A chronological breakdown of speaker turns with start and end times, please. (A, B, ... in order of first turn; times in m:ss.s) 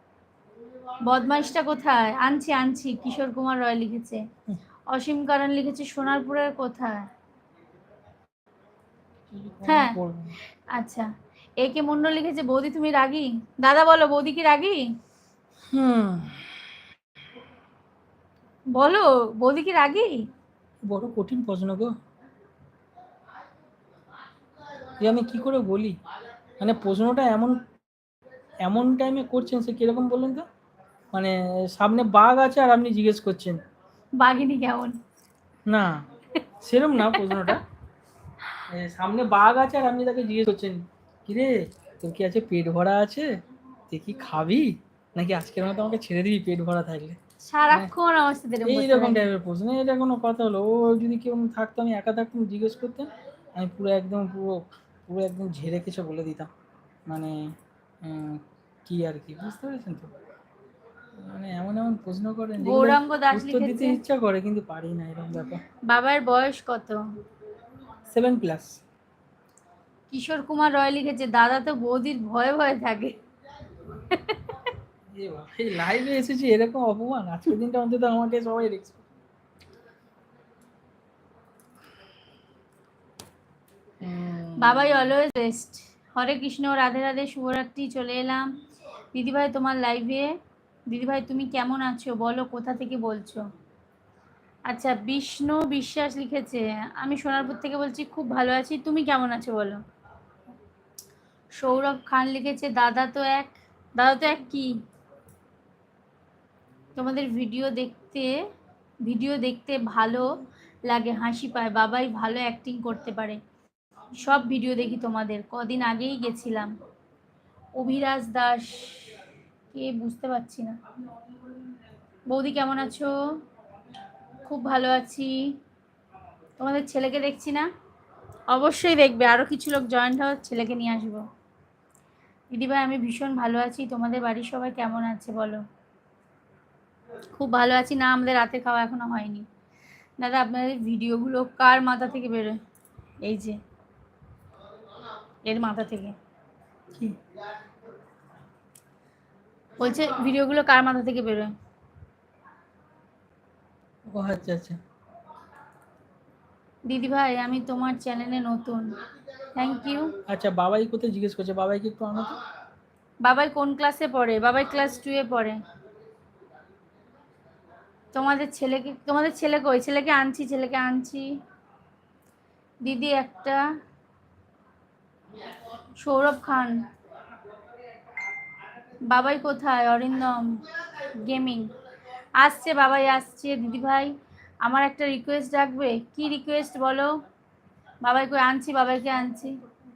0:01.0-0:04.2 A
0:04.9-0:07.1 A
0:09.3-0:10.4 B
0:09.6-0:10.0 A
0:10.7-0:14.9 A
0:15.7-0:16.5 B
0:18.7-0:20.3 A
0:20.8-0:21.9 B
0:25.0-0:25.9 B
0:26.6-0:27.6 B
0:28.6-0:30.4 B
0:31.1-0:33.6 B
0:34.2-0:35.0 A
0:35.7-0:36.1 B
0:36.6-0:37.6 B
0:37.0-0:37.6 A
0:38.7-0:43.4 B
0:43.9-0:47.2 B
0:47.4-0:49.2 A
0:48.6-0:56.5 B
0:57.1-0:57.5 B
0:58.0-1:00.1 B
1:01.2-1:05.6 B
1:02.6-1:04.0 A
1:05.8-1:07.0 A
1:08.1-1:08.8 B
1:10.1-1:13.1 A
1:13.9-1:14.6 A
1:15.1-1:19.0 B
1:24.0-1:25.1 B
1:24.6-1:28.6 A
1:29.1-1:30.3 A
1:30.9-1:33.4 A
1:34.7-1:39.8 A
1:41.6-1:44.8 A
1:46.9-1:48.4 A
1:49.0-1:53.4 A
1:54.2-1:56.7 A
1:57.8-1:59.2 A
1:59.7-2:00.8 A
2:02.3-2:03.1 A
2:04.4-2:05.6 A
2:06.6-2:07.7 A
2:08.5-2:11.2 A
2:12.5-2:15.6 A
2:17.3-2:19.4 A
2:20.2-2:22.6 A
2:23.2-2:23.6 A
2:25.4-2:26.2 A
2:29.8-2:31.5 A
2:34.1-2:34.8 B
2:36.9-2:39.0 A
2:39.6-2:40.1 A
2:40.3-2:42.4 B
2:43.2-2:45.6 A
2:48.1-2:51.3 A
2:52.8-2:53.6 A
2:56.0-2:56.8 A
2:59.0-3:00.6 A
3:01.2-3:01.7 A
3:02.4-3:07.2 A
3:08.0-3:09.6 A